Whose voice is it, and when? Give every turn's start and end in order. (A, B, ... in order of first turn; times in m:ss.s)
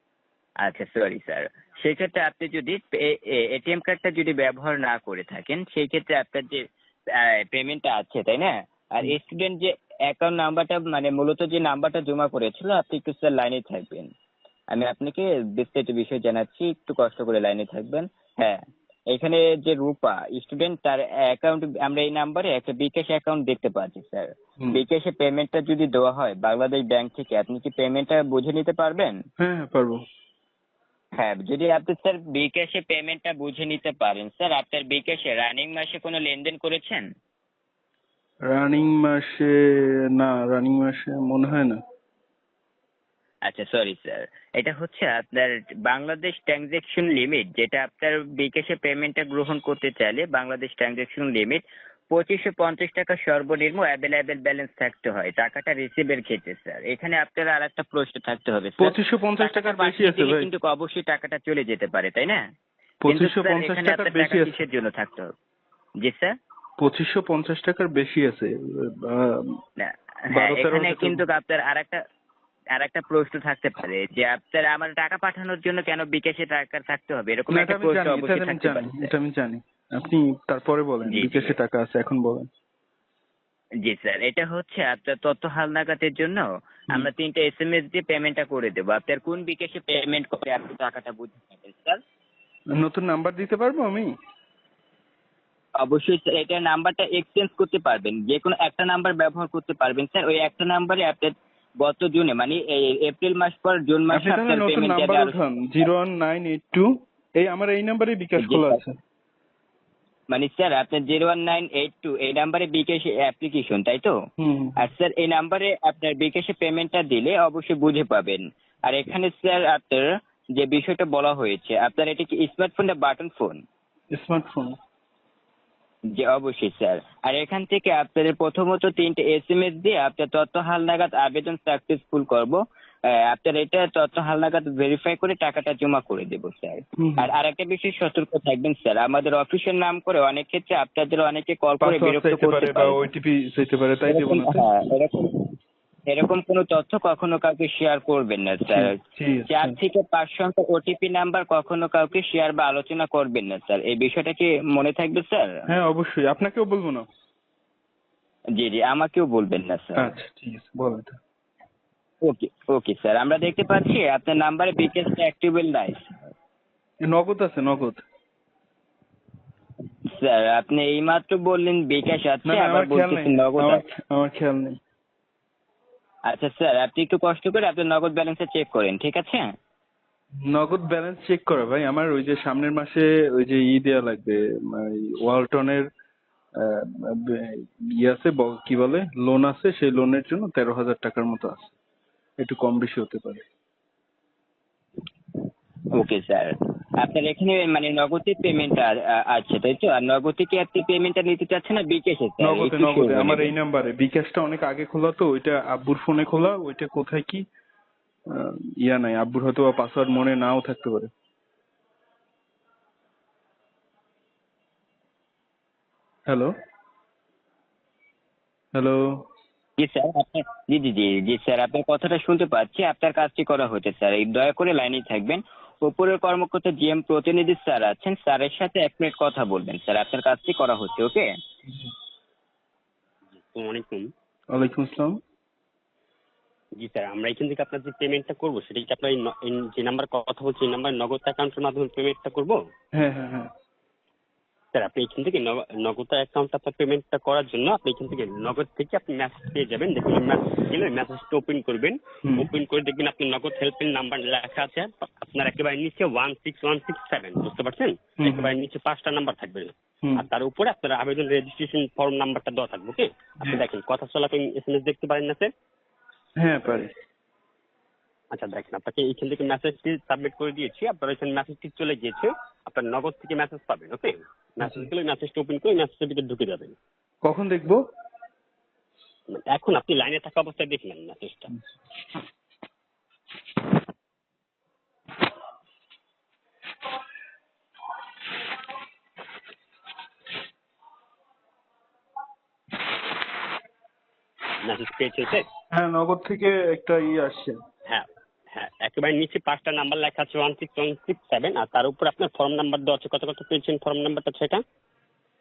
0:00.6-0:14.1 A
0:14.7-0:18.6 A
0:19.1-0:29.2 A
0:29.4-0:30.0 B
0:31.2-0:37.0 A
0:38.5-0:39.5 B
0:40.1-0:41.8 B
0:43.4-1:02.4 A
0:58.8-1:00.5 B
1:03.0-1:04.6 B
1:03.1-1:05.3 A
1:06.0-1:06.3 A
1:06.8-1:09.5 B
1:09.8-1:12.0 A
1:10.3-1:11.2 B
1:12.7-1:19.1 A
1:17.5-1:22.5 B
1:21.0-1:21.6 A
1:23.8-1:32.0 A
1:32.8-1:34.1 B
1:35.8-1:45.4 A
1:44.1-1:49.0 B
1:48.4-1:48.8 A
1:50.3-1:54.1 A
1:54.4-1:54.8 B
1:54.8-2:03.6 A
2:04.1-2:04.7 B
2:06.1-2:23.0 A
2:17.0-2:17.3 B
2:21.8-2:24.6 B
2:24.1-2:25.4 A
2:26.1-2:28.9 A
2:28.7-2:29.8 B
2:29.5-2:35.5 A
2:35.7-2:37.0 B
2:38.5-2:40.1 A
2:40.0-2:41.2 B
2:42.2-2:46.3 A
2:47.0-2:48.0 B
2:50.0-2:53.8 A
2:52.4-2:54.8 B
2:56.3-2:59.5 A
3:00.4-3:05.9 B
3:06.6-3:11.7 B
3:12.4-3:13.4 B
3:15.9-3:23.5 A
3:22.4-3:27.5 B
3:28.3-3:31.1 B
3:38.7-3:39.2 B
3:39.8-3:51.3 A
3:51.7-3:51.9 B
3:53.3-3:54.1 C
3:54.5-3:55.2 B
3:56.8-4:02.6 C
4:02.9-4:03.5 B
4:04.7-4:25.5 C
4:12.2-4:12.5 B
4:18.2-4:18.5 B
4:26.4-4:26.9 B
4:28.3-4:36.8 C
4:34.6-4:34.9 B
4:37.2-4:37.8 B
4:39.3-4:41.5 C
4:54.6-4:55.5 C
4:55.7-4:57.6 B
4:57.9-5:04.6 C